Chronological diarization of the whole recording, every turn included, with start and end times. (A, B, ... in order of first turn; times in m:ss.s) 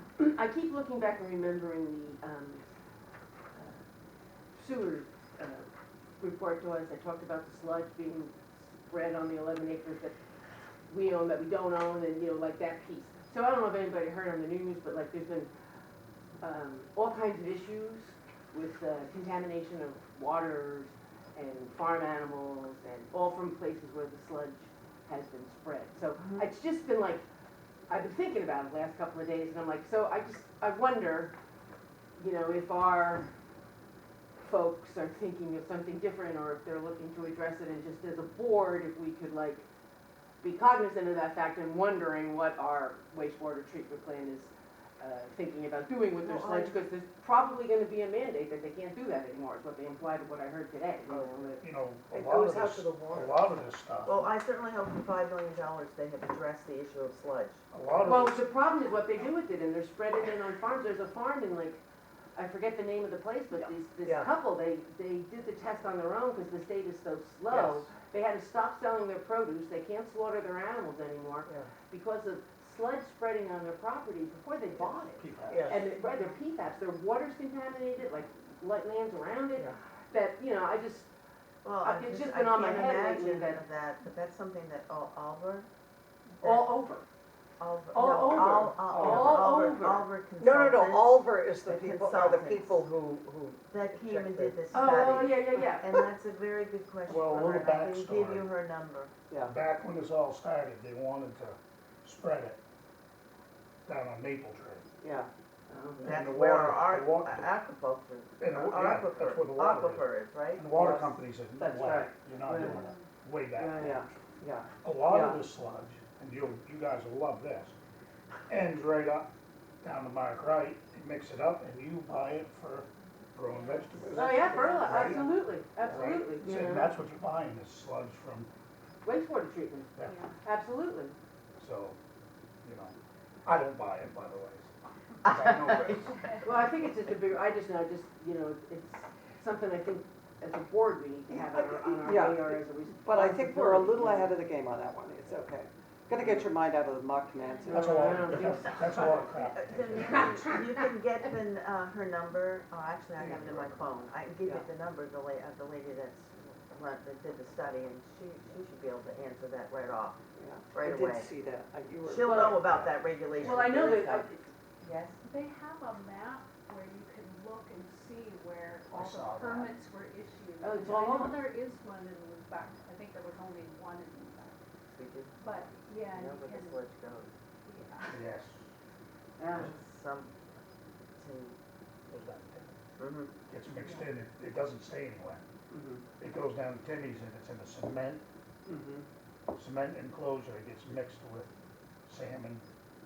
0:00.2-0:02.6 A
0:03.5-0:03.8 A
0:04.5-0:10.2 A
0:10.9-0:15.5 A
0:16.4-0:27.2 A
0:27.9-0:31.3 A
0:32.2-0:33.3 A
0:34.4-0:39.7 A
0:40.4-0:51.6 A
0:46.2-0:46.8 B
0:51.6-0:54.2 C
0:52.1-0:53.6 D
0:54.1-0:57.6 B
0:57.7-0:58.5 C
0:58.0-1:01.8 A
1:02.4-1:21.1 A
1:04.0-1:04.3 D
1:07.5-1:07.9 C
1:15.2-1:15.7 C
1:15.5-1:15.9 D
1:21.6-1:25.7 B
1:21.8-1:23.6 A
1:26.4-1:27.0 A
1:26.4-1:26.8 B
1:27.6-1:32.9 B
1:27.9-1:29.5 D
1:28.0-1:30.1 A
1:30.4-1:35.4 D
1:33.7-1:39.1 B
1:34.7-1:35.9 A
1:37.1-1:38.5 C
1:39.3-1:39.6 D
1:39.4-1:42.6 C
1:43.9-1:44.8 C
1:45.0-1:45.3 D
1:45.7-1:46.1 A
1:46.0-1:47.5 C
1:46.0-1:50.7 B
1:48.4-1:54.3 C
1:50.7-1:52.9 D
1:53.5-1:55.5 D
1:54.8-1:57.8 C
1:58.5-1:59.3 C
1:59.8-2:04.3 C
2:04.0-2:05.8 D
2:04.2-2:06.9 A
2:05.9-2:08.5 C
2:09.0-2:11.1 A
2:10.0-2:10.3 C
2:10.0-2:10.3 E
2:11.6-2:12.0 C
2:12.6-2:14.7 C
2:15.2-2:16.1 B
2:15.3-2:16.3 C
2:16.4-2:24.4 A
2:21.4-2:22.1 B
2:22.0-2:28.5 D
2:27.7-2:30.6 C
2:27.7-2:29.0 A
2:29.0-2:40.2 B
2:30.2-2:30.6 A
2:33.2-2:33.8 C
2:40.4-2:42.8 D
2:40.7-2:41.3 B
2:42.0-2:45.2 B
2:42.2-2:42.7 A
2:43.4-2:44.5 A
2:45.2-2:54.6 E
2:48.9-2:49.8 C
2:50.6-2:51.4 A
2:54.9-2:55.3 B
2:55.4-2:56.8 E
2:56.1-2:57.3 B
2:57.7-2:58.2 E
2:58.0-2:58.6 C
2:59.4-2:59.8 A
2:59.5-3:00.5 B
3:01.2-3:01.6 B
3:02.1-3:02.7 C
3:03.0-3:03.3 B
3:03.5-3:05.4 C
3:05.7-3:06.1 D
3:06.2-3:08.2 C
3:08.7-3:09.0 D
3:09.5-3:11.5 C
3:12.1-3:12.6 C